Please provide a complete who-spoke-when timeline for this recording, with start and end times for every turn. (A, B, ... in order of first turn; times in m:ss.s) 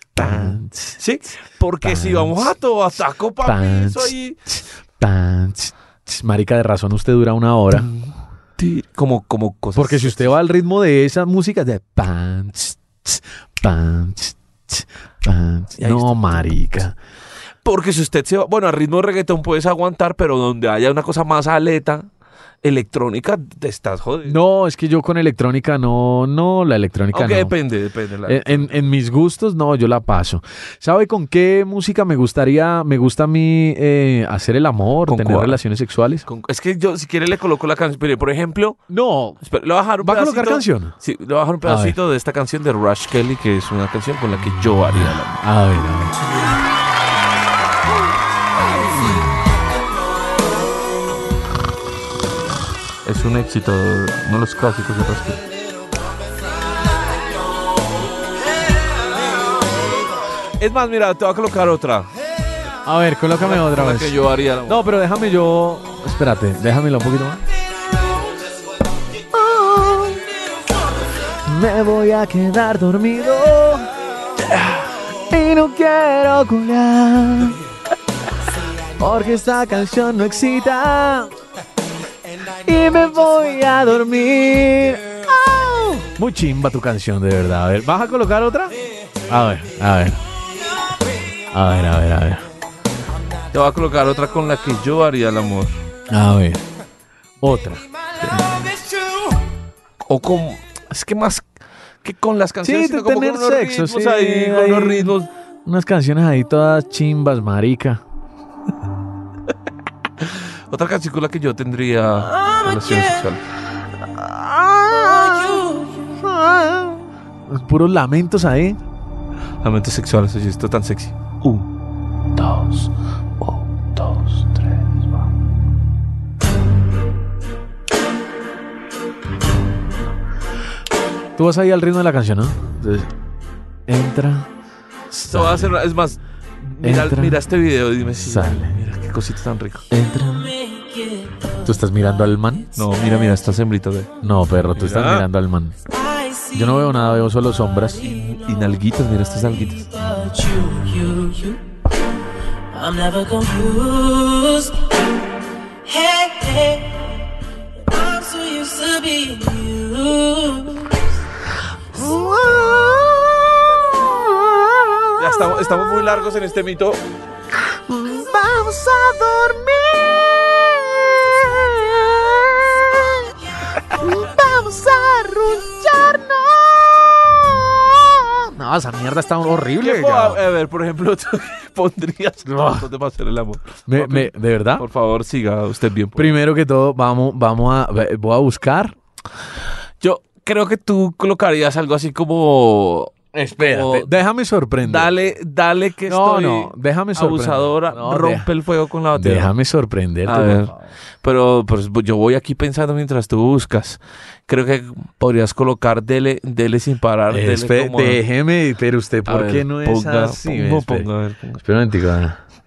0:00.2-0:01.0 A
0:00.2-0:04.4 B
0:01.8-0:02.5 A
0:03.4-0:07.9 A
0:07.7-0:10.3 B
0:09.8-0:16.9 A
0:15.8-0:16.4 B
0:17.6-0:22.1 B
0:22.6-0:24.4 B
0:24.2-0:27.5 A
0:27.1-0:28.8 B
0:28.2-0:36.3 A
0:35.1-0:35.6 B
0:36.2-0:38.8 B
0:38.9-0:39.4 A
0:39.4-0:45.4 B
0:40.0-0:40.9 A
0:41.6-0:42.0 A
0:44.9-0:46.2 A
0:53.0-0:55.4 B
1:00.6-1:02.1 B
1:02.8-1:07.4 A
1:03.4-1:04.8 B
1:09.3-1:10.4 A
1:11.4-1:17.6 A
1:19.0-1:21.3 A
1:22.6-1:28.8 A
1:29.3-1:30.2 A
1:31.5-1:32.4 A
1:33.5-1:35.8 B
1:36.1-1:36.6 A
1:37.4-1:37.8 A
1:40.0-1:41.5 B
1:42.0-1:45.3 B
1:42.6-1:48.0 A
1:50.2-1:53.4 B
1:52.4-1:53.0 C
1:54.0-1:58.8 A
1:55.4-1:55.7 C
1:59.6-2:01.7 B
2:02.4-2:05.0 B
2:11.4-2:13.1 A
2:13.9-2:14.5 A
2:15.1-2:15.8 A
2:15.3-2:19.9 B
2:16.8-2:17.4 A
2:18.0-2:18.9 A
2:19.9-2:20.5 A
2:20.3-2:21.7 C
2:21.6-2:22.8 A
2:22.8-2:24.1 B
2:24.2-2:25.8 A
2:24.7-2:25.3 B
2:25.9-2:27.0 C
2:26.5-2:28.1 A
2:28.0-2:29.9 B
2:28.0-2:28.4 C
2:29.6-2:31.6 C
2:32.7-2:34.9 C
2:35.8-2:37.2 C
2:37.9-2:41.0 C
2:41.9-2:45.9 A
2:45.2-2:47.0 B
2:47.7-2:53.3 A
2:53.9-3:00.4 A
2:59.8-3:06.4 B
3:02.4-3:02.9 A
3:03.9-3:04.8 A
3:06.2-3:09.0 A
3:10.0-3:14.1 B
3:13.3-3:15.1 A
3:14.8-3:19.5 B
3:16.1-3:18.5 A
3:19.1-3:20.8 A
3:20.2-3:28.2 B
3:27.3-3:31.1 A
3:29.2-3:31.6 B
3:31.6-3:32.4 A